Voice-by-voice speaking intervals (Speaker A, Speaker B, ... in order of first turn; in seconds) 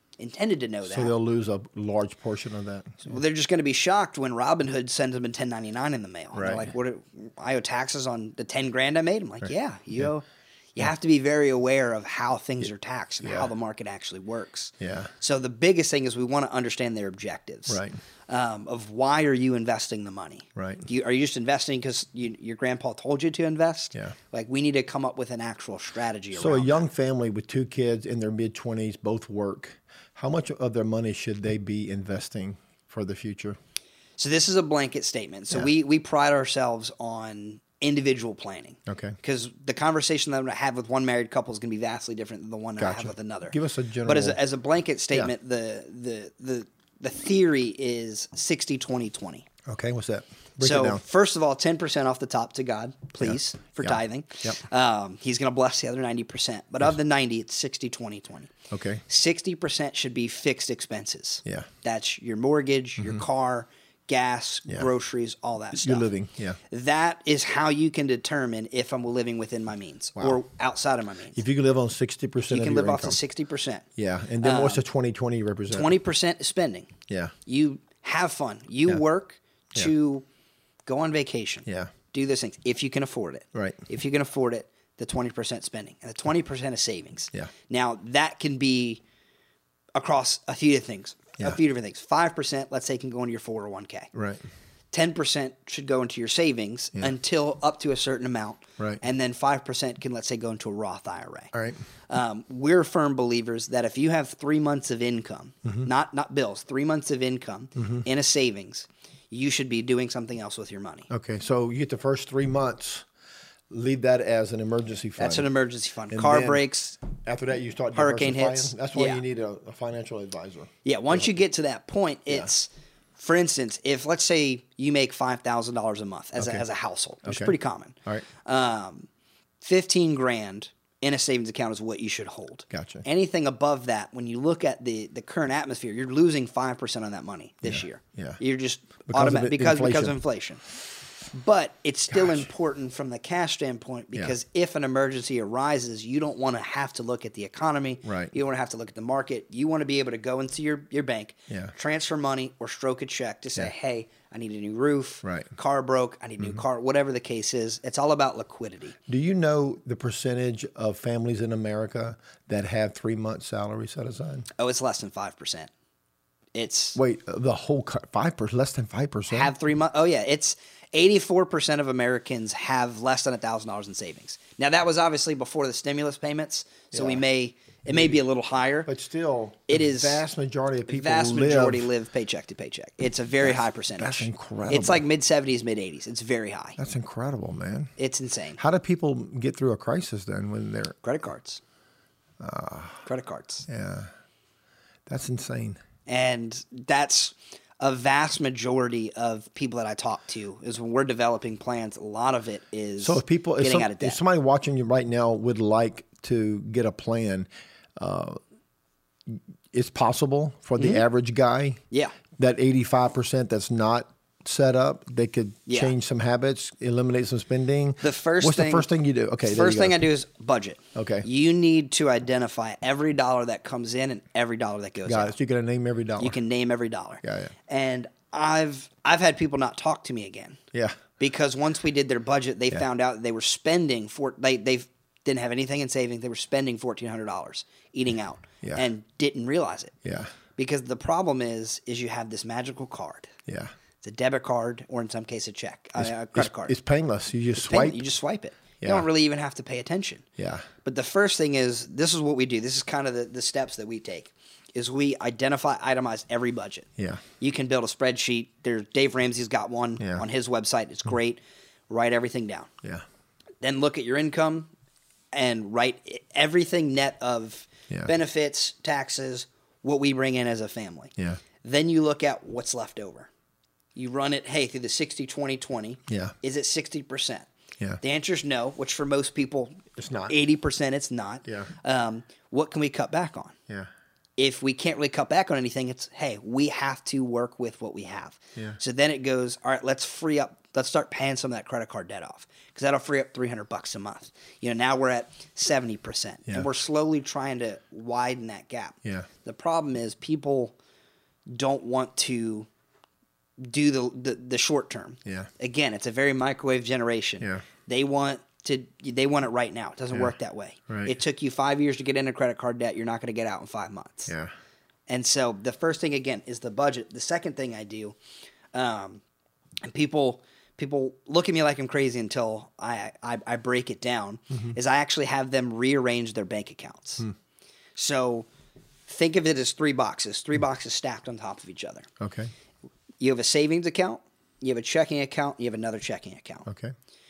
Speaker A: 0.2-1.1, 3.0-10.2, 10.8-26.9, 34.2-49.5, 50.6-58.5, 59.1-66.1, 66.7-71.4, 72.5-73.8, 74.4-74.8, 75.7-76.9, 77.5-80.2, 80.9-89.0, 90.0-94.1, 94.9-101.5, 102.1-111.1, 115.2-117.0, 118.0-119.2, 120.8-129.1, 129.6-140.6, 141.3-159.0, 164.6-165.7, 166.5-167.0, 169.3-178.9, 179.7-180.2, 180.9-186.8, 188.0-188.6, 191.0-191.6, 193.1-193.7, 196.1-204.2, 210.8-211.0, 211.9-212.2, 215.7-215.9, 218.0-218.9, 219.4-225.3, 226.2-230.6, 231.2-240.0, 240.6-243.3, 244.0-246.8, 247.6-250.2, 250.8-256.9, 257.4-262.7, 263.6-264.7, 265.3-271.1, 271.6-273.3, 273.9-277.5, 278.0-283.6, 284.4-300.8, 301.5-302.7, 303.6-314.3, 315.1-318.2, 318.7-319.2, 319.8-327.2, 327.9-328.5, 329.1-332.1, 333.2-336.7
Speaker B: 0.9-3.2, 6.3-6.7, 14.8-15.1, 17.7-18.0, 20.6-20.9, 26.3-33.6, 38.9-39.2, 42.8-44.4, 49.7-51.0, 53.2-54.6, 58.7-59.0, 65.8-66.6, 71.3-73.2, 74.0-76.0, 77.1-77.3, 81.7-81.9, 83.5-83.9, 94.1-94.4, 101.5-101.8, 107.8-108.0, 111.1-113.1, 113.7-115.5, 116.1-121.2, 126.4-126.6, 127.2-127.5, 132.7-133.1, 137.6-138.4, 139.1-140.2, 142.1-142.5, 148.1-148.3, 151.5-151.7, 155.2-155.5, 159.1-164.5, 167.0-169.5, 176.9-177.2, 177.9-178.2, 178.9-181.9, 183.4-185.0, 186.8-187.9, 188.6-191.0, 192.4-193.1, 193.7-194.1, 195.1-195.8, 203.0-208.4, 209.3-211.8, 212.4-220.0, 220.9-221.3, 225.1-226.4, 227.2-227.5, 230.7-231.0, 240.1-240.3, 243.5-243.7, 246.0-248.0, 248.8-249.1, 250.4-250.7, 257.0-257.2, 276.1-276.4, 280.0-280.4, 281.4-281.7, 296.5-296.7, 305.2-305.5, 310.9-311.1, 332.2-332.5, 336.7-336.9